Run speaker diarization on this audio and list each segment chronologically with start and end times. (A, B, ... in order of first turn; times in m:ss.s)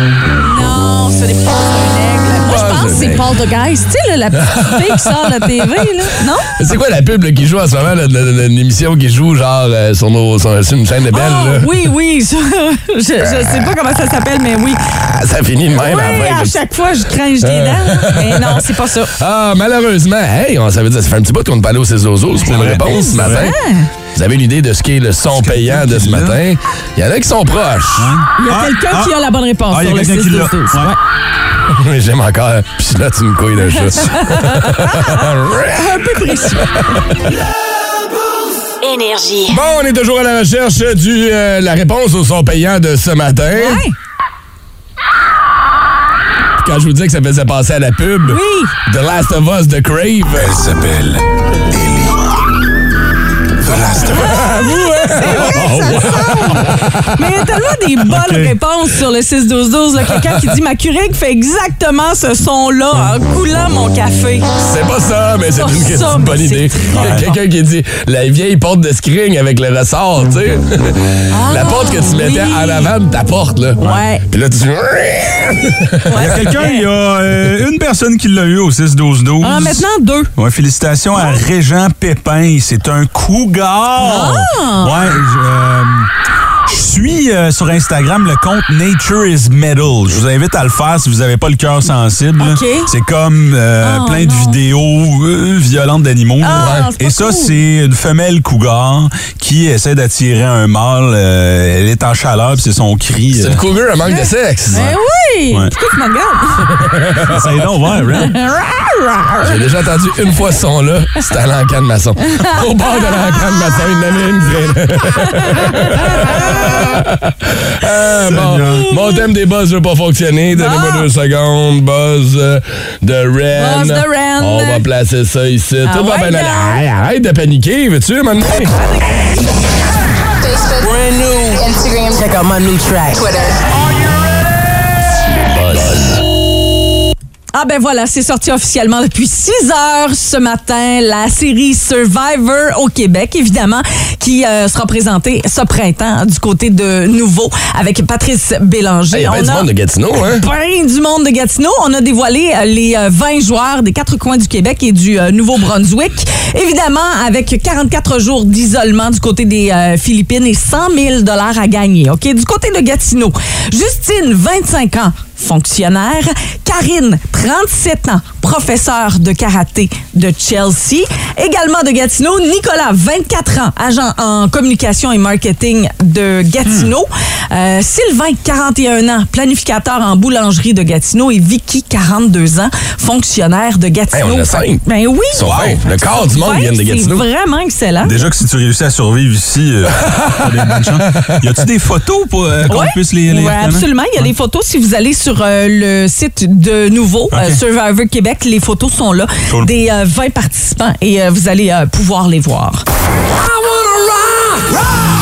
0:00.4-0:06.6 A
0:02.4-0:03.3 B
0:04.3-0:11.8 B
0:11.1-0:14.9 A
0:13.2-0:13.7 B
0:14.9-0:16.6 B
0:15.8-0:19.1 A
0:17.4-0:23.6 B
0:22.4-0:23.4 C
0:22.5-0:23.9 A
0:24.1-0:28.1 B
0:25.4-0:26.4 C
0:28.0-0:29.1 C
0:28.4-0:31.0 A
0:29.7-0:30.9 C
0:31.7-0:37.2 B
0:33.7-0:37.1 A
0:38.8-0:39.6 D
0:39.5-0:43.8 B
0:43.5-0:43.9 A
0:46.6-0:50.6 B
0:48.2-0:48.7 A
0:53.7-0:54.3 C
0:54.0-0:57.1 B
0:54.1-1:04.5 A
0:58.0-0:58.5 C
1:00.2-1:00.5 B
1:04.6-1:16.5 B
1:05.6-1:07.3 A
1:06.9-1:07.3 C
1:11.3-1:12.9 A
1:13.8-1:14.2 A
1:16.0-1:16.8 A
1:16.1-1:26.1 C
1:19.4-1:20.3 A
1:21.1-1:21.4 A
1:24.0-1:25.1 A
1:26.6-1:43.6 C
1:32.4-1:32.9 A
1:33.8-1:34.6 A
1:36.4-1:37.5 A
1:36.6-1:36.9 B
1:43.3-1:44.9 B
1:44.0-1:46.7 A
1:44.7-1:45.0 C
1:46.8-1:47.6 B
1:47.3-1:48.3 C
1:48.2-1:49.6 A
1:49.4-2:08.7 B
1:52.2-1:54.2 A
1:55.0-1:57.0 A
1:58.3-1:58.8 C
1:58.7-1:59.3 A
2:00.5-2:01.1 A
2:03.5-2:04.8 A
2:05.8-2:06.8 A
2:08.7-2:09.5 A
2:10.4-2:10.9 D
2:10.8-2:13.4 E
2:11.6-2:12.3 D
2:13.1-2:13.6 D
2:15.5-2:16.1 B
2:17.5-2:29.7 A
2:29.1-2:30.4 B
2:30.2-3:08.1 A
2:56.6-2:56.9 C
3:04.1-3:04.8 B
3:05.3-3:07.2 B
3:05.4-3:05.8 C
3:08.0-3:14.3 C
3:10.1-3:10.5 B
3:12.7-3:22.8 A
3:17.3-3:17.6 C
3:23.3-3:24.9 B